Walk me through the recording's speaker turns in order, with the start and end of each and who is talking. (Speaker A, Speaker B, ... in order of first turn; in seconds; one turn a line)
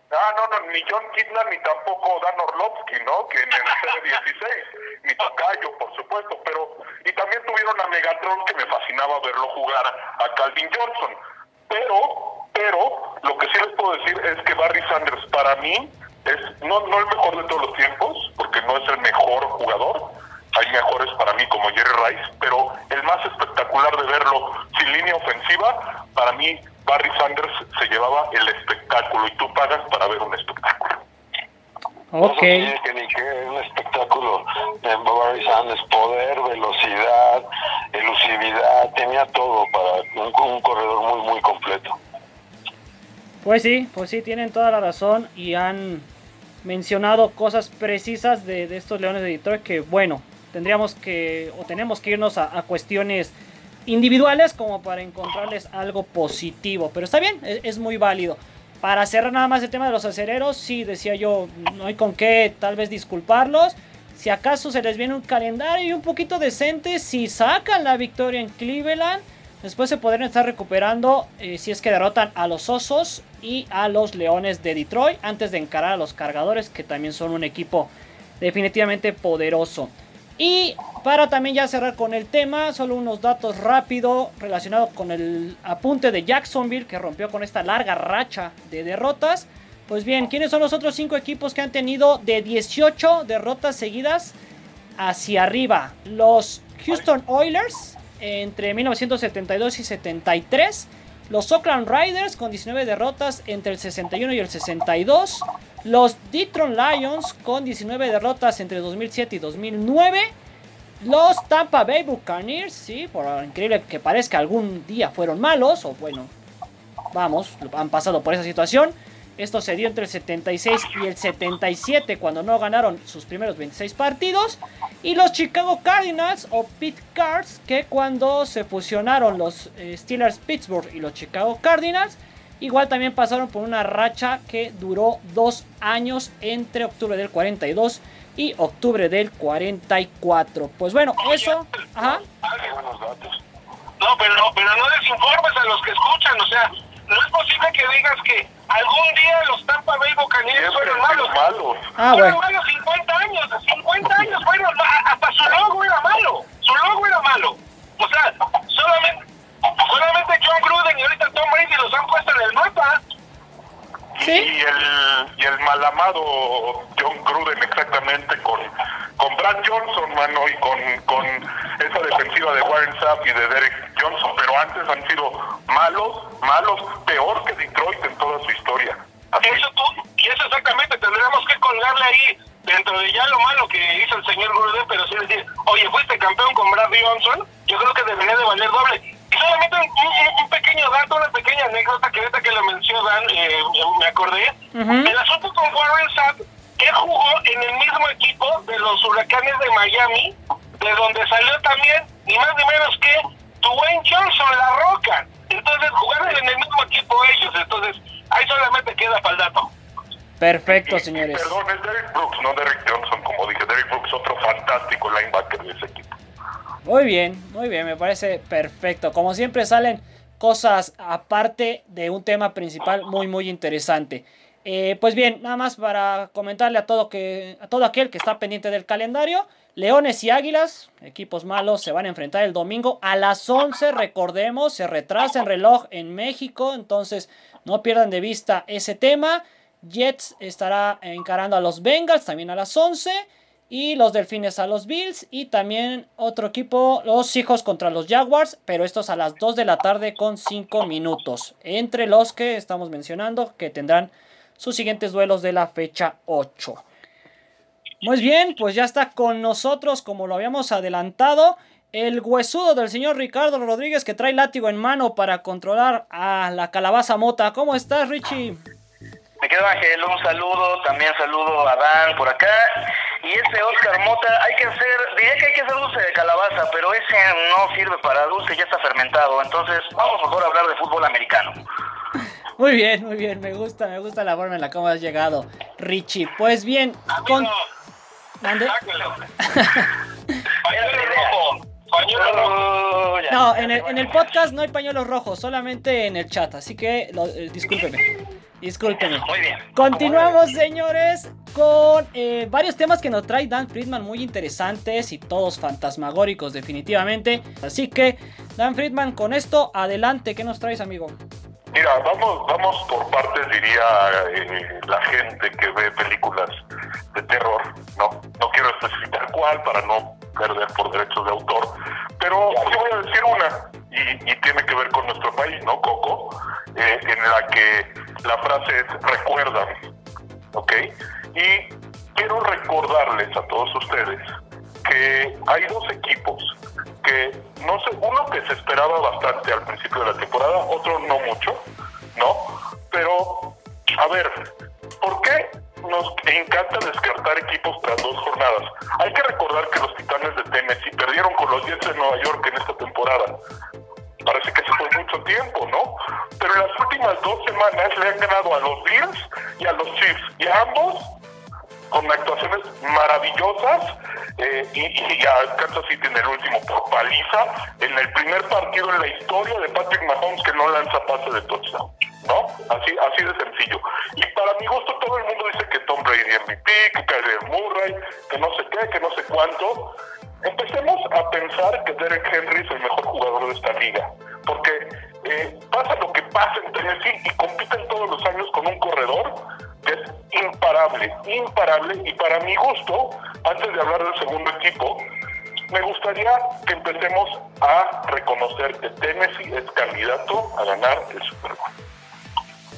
Speaker A: 0.1-31.0
Speaker B: 32.1-32.7
Speaker C: 32.2-42.0
Speaker B: 43.4-46.1
Speaker B: 46.6-53.3
Speaker B: 53.9-94.4
Speaker B: 95.0-110.3
Speaker B: 111.0-116.3
Speaker B: 117.1-142.2
Speaker D: 141.2-142.8
Speaker C: 142.6-143.4
Speaker D: 144.0-151.5
Speaker A: 150.5-151.9
Speaker B: 152.0-152.4
Speaker D: 152.1-163.0
Speaker A: 164.2-179.6
Speaker B: 164.2-164.5
Speaker D: 179.4-209.7
Speaker B: 194.7-195.1
Speaker B: 210.4-211.6
Speaker A: 210.7-216.1
Speaker B: 216.8-256.8
Speaker B: 258.0-268.6
Speaker E: 269.4-281.6
Speaker B: 282.6-287.5
Speaker D: 287.1-287.6
Speaker B: 288.4-288.7
Speaker D: 288.5-289.3
Speaker B: 289.4-290.4
Speaker E: 290.6-291.6
Speaker D: 290.6-292.7
Speaker E: 292.1-294.1
Speaker B: 293.3-298.1
Speaker B: 298.6-311.2
Speaker E: 299.2-300.3
Speaker A: 311.7-316.6
Speaker A: 317.1-329.9
Speaker A: 330.5-341.6
Speaker A: 342.1-353.4
Speaker A: 354.2-361.1
Speaker A: 361.9-395.1
Speaker A: 395.7-401.7